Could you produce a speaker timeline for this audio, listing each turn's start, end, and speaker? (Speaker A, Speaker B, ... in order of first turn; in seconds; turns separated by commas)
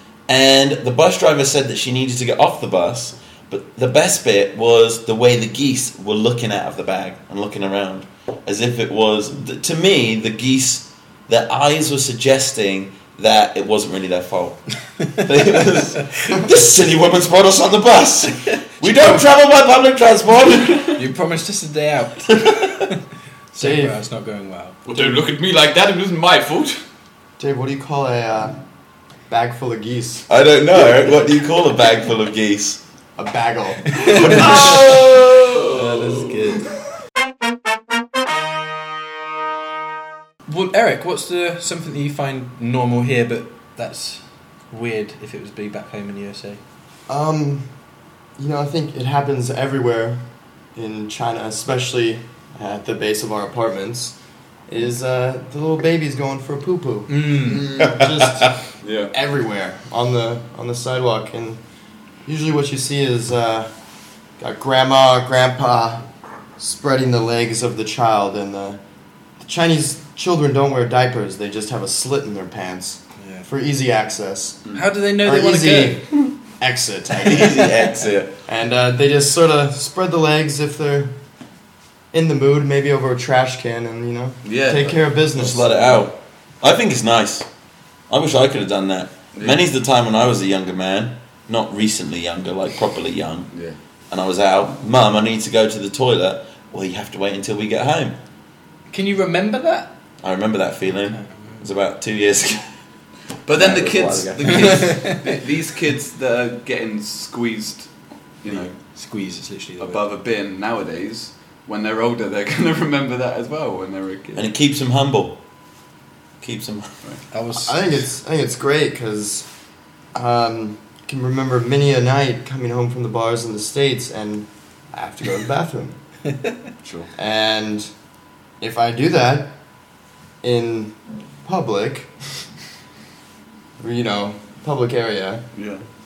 Speaker A: 0.3-21.0, Speaker B: 18.8-19.2, Speaker B: 21.0-23.0, Speaker B: 23.5-24.8, Speaker C: 23.6-24.0, Speaker D: 24.9-26.8, Speaker C: 27.4-28.6, Speaker C: 29.3-30.3, Speaker A: 30.3-32.8, Speaker C: 33.2-34.7, Speaker B: 33.9-34.8, Speaker A: 34.0-35.7, Speaker B: 35.7-36.7, Speaker B: 40.5-46.6, Speaker C: 47.1-47.7, Speaker C: 48.4-50.2, Speaker C: 50.8-54.2, Speaker C: 54.7-61.6, Speaker B: 57.1-57.7, Speaker D: 58.8-59.1, Speaker C: 62.2-63.7, Speaker C: 64.4-66.1, Speaker C: 66.6-68.8, Speaker C: 69.4-74.7, Speaker B: 73.2-73.5, Speaker B: 74.7-76.0, Speaker C: 75.2-77.9, Speaker A: 77.2-78.3, Speaker C: 78.5-81.1, Speaker C: 82.1-85.9, Speaker D: 84.5-85.1, Speaker A: 85.3-87.5, Speaker A: 88.1-93.5, Speaker D: 89.3-89.6, Speaker A: 94.1-98.2, Speaker B: 98.9-100.0, Speaker A: 100.2-102.7, Speaker D: 103.5-107.9, Speaker A: 103.5-104.9, Speaker B: 104.5-105.2, Speaker D: 108.4-108.7, Speaker B: 108.9-110.0, Speaker D: 109.8-114.5, Speaker A: 114.3-115.4, Speaker A: 116.4-117.0, Speaker B: 117.3-117.8, Speaker C: 117.5-119.5, Speaker C: 120.1-126.0, Speaker D: 126.8-127.1, Speaker C: 127.2-127.9, Speaker C: 128.6-129.5, Speaker C: 130.4-132.1, Speaker C: 133.8-135.4, Speaker D: 135.6-135.8